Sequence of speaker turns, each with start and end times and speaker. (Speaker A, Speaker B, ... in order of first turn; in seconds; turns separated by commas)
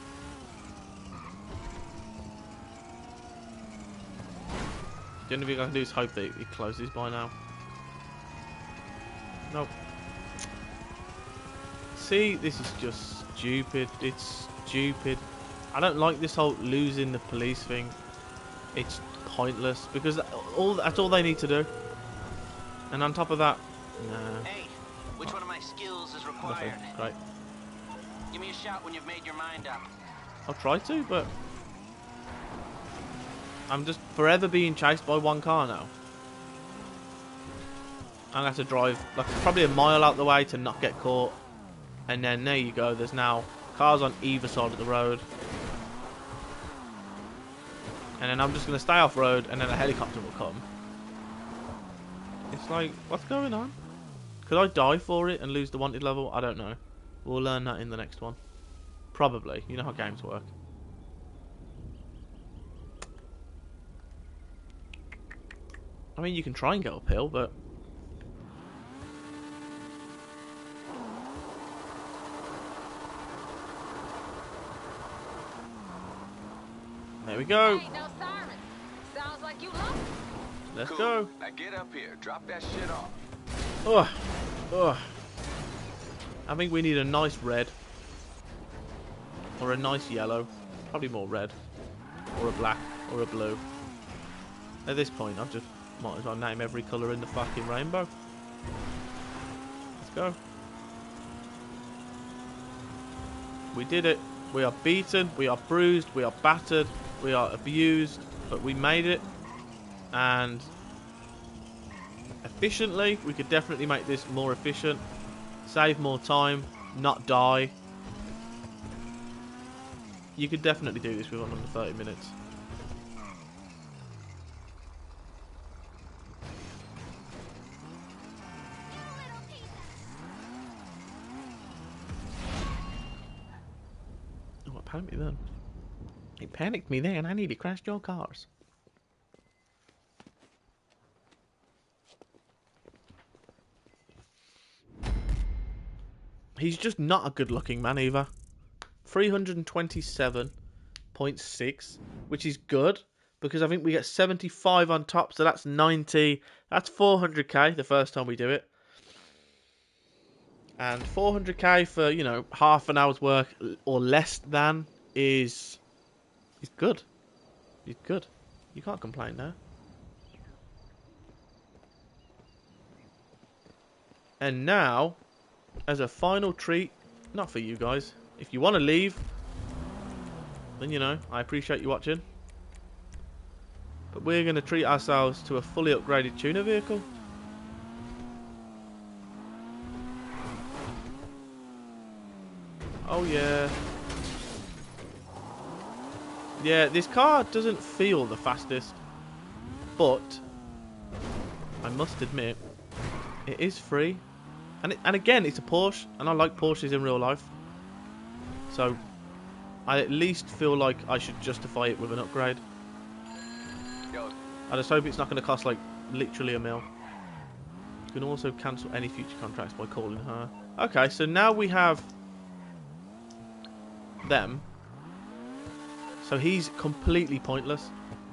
Speaker A: 5.3-7.3, Speaker A: 11.9-18.0, Speaker A: 18.7-21.7, Speaker A: 22.9-24.5, Speaker B: 24.4-27.0, Speaker A: 26.4-27.2, Speaker B: 28.3-29.9, Speaker A: 30.5-31.3, Speaker A: 33.7-35.9, Speaker A: 38.3-41.4, Speaker A: 42.1-45.3, Speaker A: 48.2-50.6, Speaker A: 52.5-53.8, Speaker A: 54.5-58.4, Speaker A: 59.1-60.5, Speaker A: 66.2-67.5, Speaker A: 77.2-77.8, Speaker C: 77.6-80.1, Speaker A: 80.7-81.3, Speaker D: 80.8-83.2, Speaker A: 83.8-85.1, Speaker A: 86.5-87.8, Speaker A: 89.6-91.5, Speaker A: 92.3-93.6, Speaker A: 94.8-98.1, Speaker A: 100.0-100.4, Speaker A: 103.7-109.3, Speaker A: 110.1-110.7, Speaker A: 112.4-115.0, Speaker A: 115.7-117.8, Speaker A: 120.4-122.3, Speaker A: 134.7-135.4, Speaker A: 136.4-138.5, Speaker A: 146.6-148.3, Speaker A: 149.1-150.5, Speaker A: 151.1-158.7, Speaker A: 160.8-165.8, Speaker A: 166.6-167.1, Speaker A: 167.8-169.6, Speaker A: 174.4-175.2, Speaker A: 175.9-179.2, Speaker A: 180.8-182.2, Speaker A: 184.1-187.1, Speaker A: 193.0-193.8, Speaker A: 196.6-199.0, Speaker A: 200.0-200.4, Speaker A: 201.8-202.6, Speaker A: 203.5-204.2, Speaker A: 204.8-207.5, Speaker A: 208.7-209.0, Speaker A: 209.9-212.6, Speaker D: 214.1-214.3, Speaker A: 214.7-216.9, Speaker A: 218.1-222.1, Speaker A: 224.2-224.7, Speaker A: 226.2-227.9